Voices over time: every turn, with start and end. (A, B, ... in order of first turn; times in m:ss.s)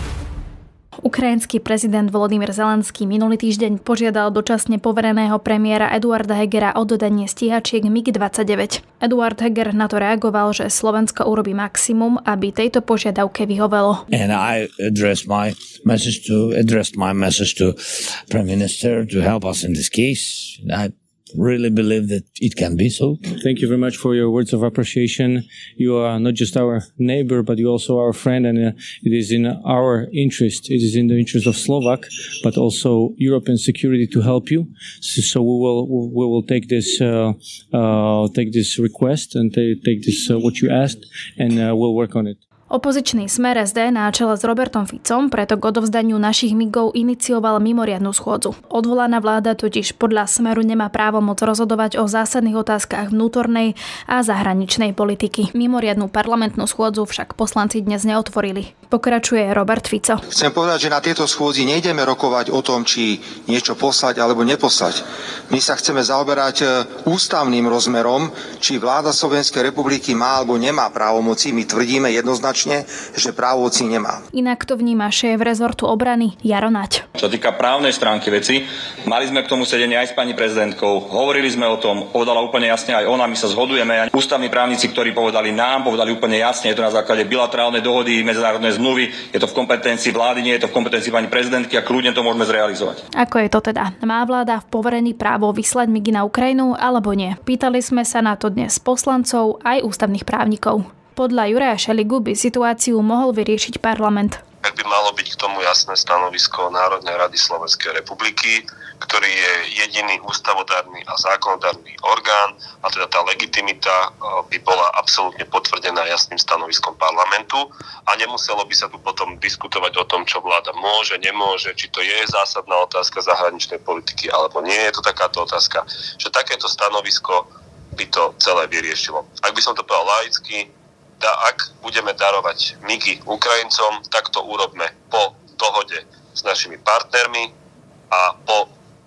0:01.0-0:14.0 A
0:14.1-0:23.2 B
0:23.4-0:42.4 C
0:42.7-1:00.2 A
1:00.3-1:14.2 D
1:14.3-1:17.0 A
1:17.3-1:33.0 E
1:33.1-1:44.4 A
1:44.6-2:17.5 F
2:18.1-2:18.7 F